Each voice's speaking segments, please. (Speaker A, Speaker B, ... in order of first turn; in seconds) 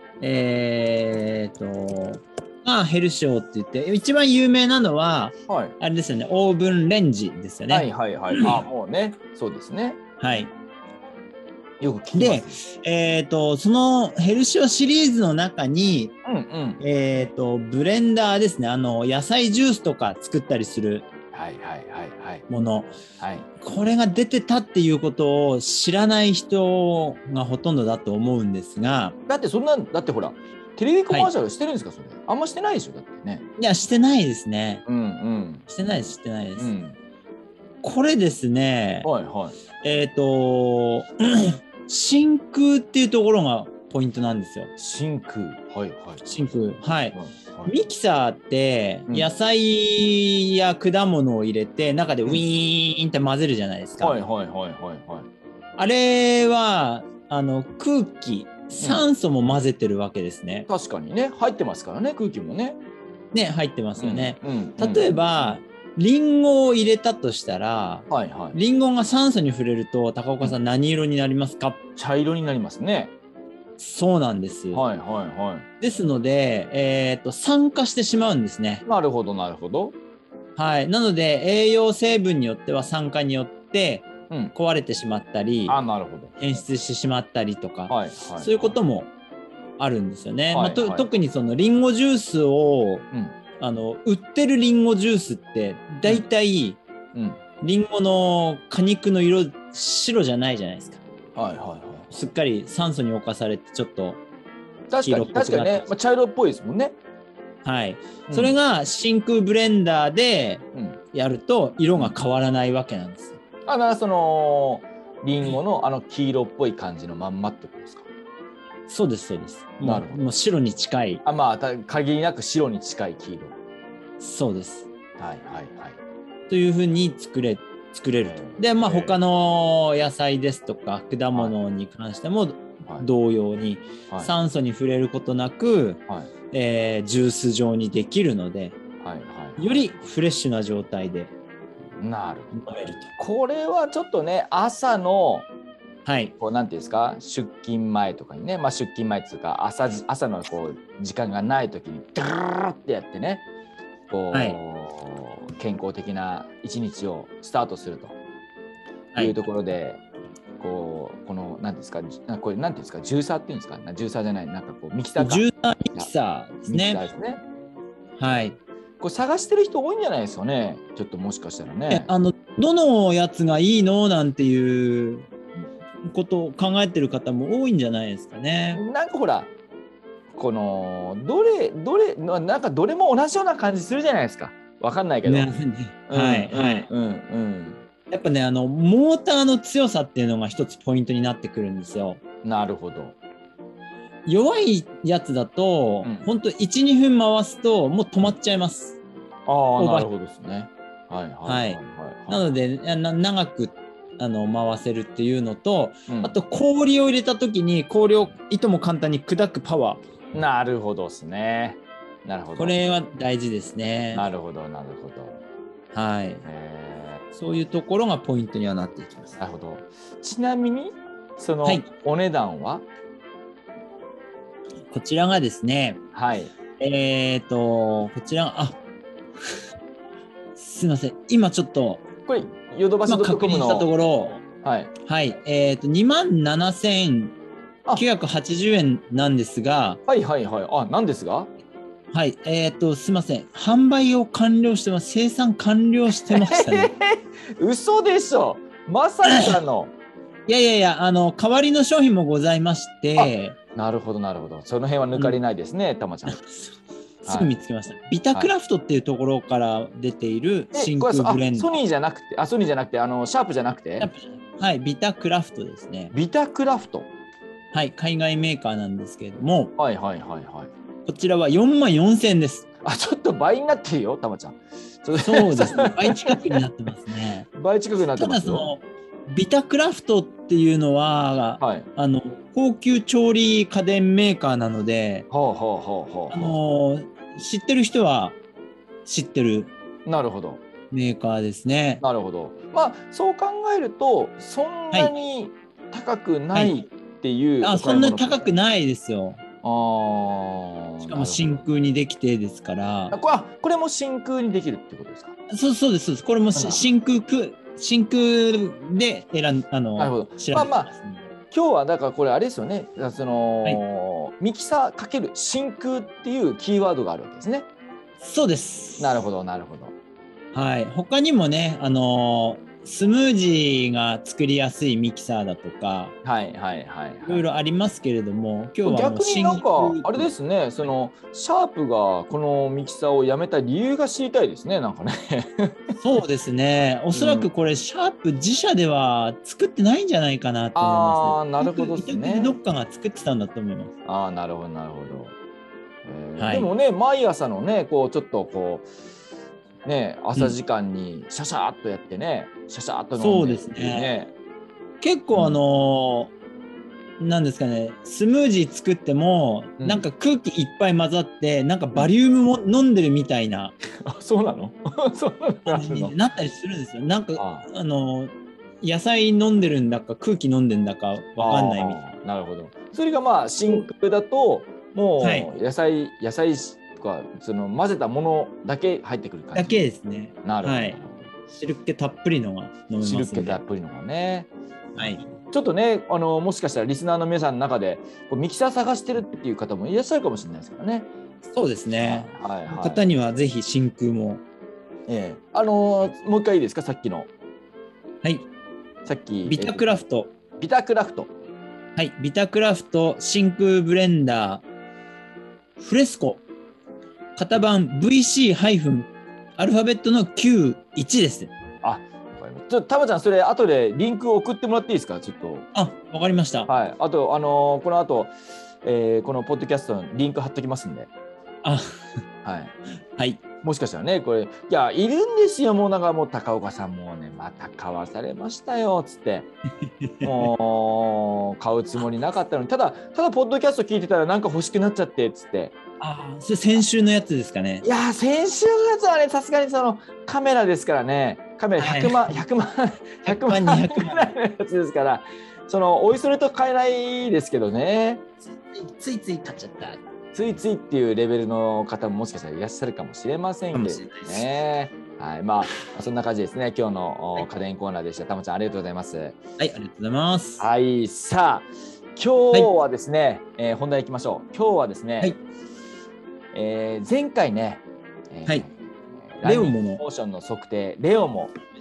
Speaker A: 0.2-8.6, 10.2-10.5, 12.2-16.1, 16.8-21.1, 22.5-23.0, 23.6-29.1, 33.6-34.8, 35.7-36.7, 37.8-39.1, 39.8-44.7, 46.2-54.2, 55.8-60.7, 63.3-71.8, 73.8-74.8, 75.8-78.8, 80.6-85.8, 86.4-89.1, 89.8-93.1, 93.6-96.8, 97.6-101.0, 102.1-104.2, 105.0-105.9, 107.6-113.4, 118.9-121.2, 124.2-124.9, 126.5-138.8, 139.6-141.3, 142.6-143.1, 146.1-146.3, 154.3-154.6, 159.1-159.4, 165.2-167.0, 168.2-168.6, 171.9-175.3, 176.0-178.8, 185.2-186.9, 188.1-192.2, 194.3-199.0, 199.8-200.1, 201.5-210.0, 212.6-214.3, 215.9-216.4, 217.3-219.4, 224.9-226.0, 226.8-228.8, 230.6-232.1, 233.1-234.4, 235.0-237.3, 237.9-240.0, 242.1-246.9, 249.3-249.6, 250.5-253.6, 256.3-261.8, 264.0-266.1, 267.7-269.7, 271.1-272.7, 275.2-277.5, 278.2-285.3, 286.3-288.4, 289.1-289.7, 290.9-292.0, 297.6-299.4, 301.0-303.2, 305.5-311.2, 318.2-319.2, 320.5-326.1, 327.2-330.3, 336.0-343.9, 346.4-346.7, 353.2-354.1, 355.0-356.3, 357.2-363.7, 365.7-372.0, 375.2-375.5, 379.6-381.0, 381.5-383.6, 385.0-385.2, 391.5-394.4, 399.5-400.3, 402.0-404.6, 405.8-406.4, 407.4-411.5, 415.7-416.7, 421.6-421.9, 423.2-423.4, 430.1-430.5, 436.0-437.9, 441.8-442.2, 443.3-444.3, 448.5-450.0, 453.7-454.4, 459.6-460.6, 469.4-470.0
Speaker B: 5.5-5.8, 7.7-10.0, 11.8-12.6, 16.2-16.8, 21.3-22.4, 23.2-23.5, 29.3-33.5, 34.9-35.7, 36.6-37.0, 39.0-39.6, 44.8-46.5, 47.1-47.7, 54.0-55.3, 58.8-59.1, 60.7-62.8, 64.0-65.1, 68.1-68.6, 72.0-73.1, 74.7-75.7, 78.9-80.0, 85.7-86.5, 87.9-88.8, 90.5-91.1, 97.1-97.4, 101.3-102.1, 104.9-107.0, 108.3-108.6, 113.7-118.1, 119.8-120.2, 121.2-123.6, 125.2-126.0, 128.2-129.2, 139.0-139.8, 142.0-145.5, 146.4-153.4, 154.1-158.2, 159.2-160.0, 160.6-166.1, 166.7-167.4, 169.0-172.1, 178.8-179.5, 180.3-185.5, 186.1-187.8, 192.4-193.2, 199.5-202.5, 206.1-206.3, 210.3-212.8, 214.1-215.4, 216.4-217.2, 219.4-222.8, 226.1-226.5, 232.3-233.9, 234.6-234.9, 240.1-241.5, 246.2-249.9, 253.2-256.4, 257.2-257.5, 260.7-264.1, 266.1-267.1, 269.8-270.7, 272.8-276.6, 277.5-278.7, 281.6-281.9, 285.3-286.6, 290.1-290.6, 292.0-298.5, 299.6-301.6, 303.1-305.4, 306.5-306.9, 310.0-310.9, 311.5-317.7, 319.0-319.9, 326.2-327.4, 328.9-336.0, 337.1-337.5, 340.8-342.6, 344.1-345.4, 346.1-348.9, 349.9-354.3, 355.3-355.6, 364.0-366.1, 367.4-367.7, 371.4-379.8, 380.4-381.3, 383.0-391.1, 392.0-393.1, 395.1-397.3, 399.1-399.9, 400.6-401.3, 411.8-415.7, 416.7-421.1, 422.4-422.8, 423.6-429.5, 430.2-435.8, 437.8-448.2, 450.3-459.4, 460.6-465.3, 466.5-468.7, 469.3-471.5